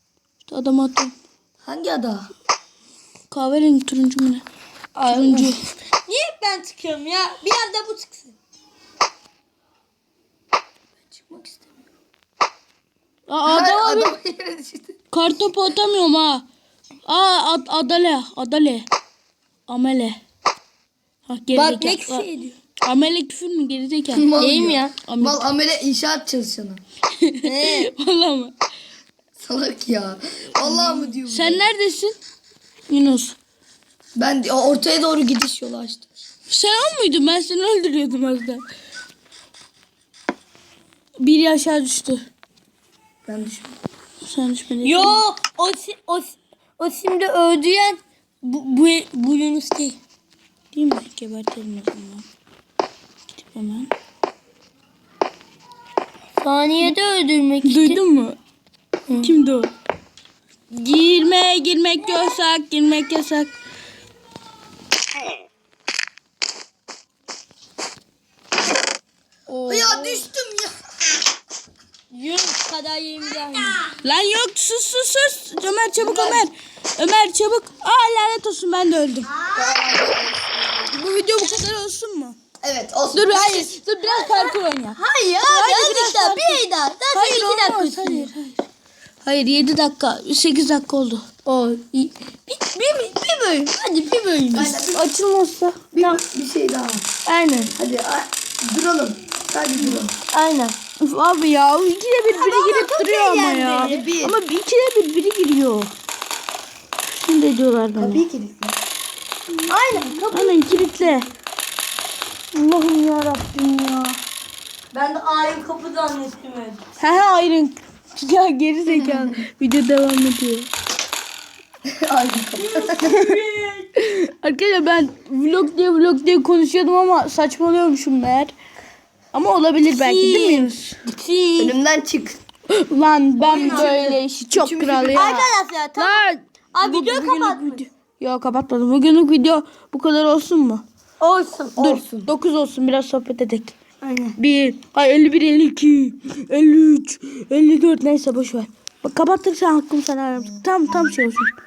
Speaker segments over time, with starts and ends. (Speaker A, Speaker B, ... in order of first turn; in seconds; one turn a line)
Speaker A: 0.4-1.1
Speaker B: 1.6-2.3
Speaker A: 3.3-4.4
Speaker C: 4.9-8.3
Speaker A: 5.1-5.6
Speaker B: 11.1-11.8
Speaker A: 13.3-14.2
Speaker B: 13.4-14.9
Speaker A: 15.1-16.4
Speaker A: 17.0-18.9
Speaker A: 19.7-20.2
Speaker A: 21.2-22.3
Speaker C: 21.5-22.6
Speaker A: 22.8-24.3
Speaker B: 24.1-26.8
Speaker C: 24.4-24.9
Speaker A: 25.1-25.4
Speaker A: 27.2-28.5
Speaker C: 27.4-27.9
Speaker B: 29.4-31.7
Speaker A: 30.6-32.1
Speaker A: 32.9-33.4
Speaker B: 34.1-36.1
Speaker A: 36.5-38.6
Speaker A: 41.2-42.2
Speaker B: 43.3-43.7
Speaker A: 44.2-45.2
Speaker C: 44.8-50.0
Speaker A: 50.7-52.2
Speaker A: 53.3-53.9
Speaker C: 56.4-58.0
Speaker A: 57.6-58.4
Speaker C: 59.1-59.3
Speaker A: 59.2-59.7
Speaker A: 60.7-63.5
Speaker A: 69.5-70.3
Speaker B: 69.7-70.8
Speaker C: 72.1-73.8
Speaker A: 74.0-79.4
Speaker B: 76.0-76.4
Speaker B: 79.5-80.9
Speaker A: 80.9-82.4
Speaker B: 82.6-83.7
Speaker A: 83.1-86.6
Speaker C: 84.1-88.3
Speaker A: 87.1-88.6
Speaker A: 89.2-91.3
Speaker C: 91.4-94.8
Speaker B: 94.5-95.1
Speaker A: 94.8-96.2
Speaker B: 95.9-97.0
Speaker C: 97.2-97.7
Speaker B: 97.7-100.1
Speaker C: 100.3-100.8
Speaker A: 101.0-105.9
Speaker C: 102.3-104.1
Speaker B: 103.8-104.4
Speaker A: 107.0-108.2
Speaker B: 108.0-108.8
Speaker A: 109.5-111.3
Speaker C: 109.7-111.2
Speaker A: 112.5-114.2
Speaker C: 114.9-116.8
Speaker A: 117.0-120.7
Speaker B: 121.9-123.2
Speaker C: 122.6-123.8
Speaker A: 123.0-123.4
Speaker A: 124.0-128.5
Speaker A: 129.3-131.0
Speaker C: 129.9-131.8
Speaker B: 131.6-132.4
Speaker A: 132.7-140.8
Speaker B: 133.4-135.4
Speaker C: 133.4-134.1
Speaker C: 135.1-137.8
Speaker C: 141.2-141.8
Speaker B: 141.7-142.3
Speaker A: 141.8-143.7
Speaker C: 144.0-144.4
Speaker A: 144.4-151.5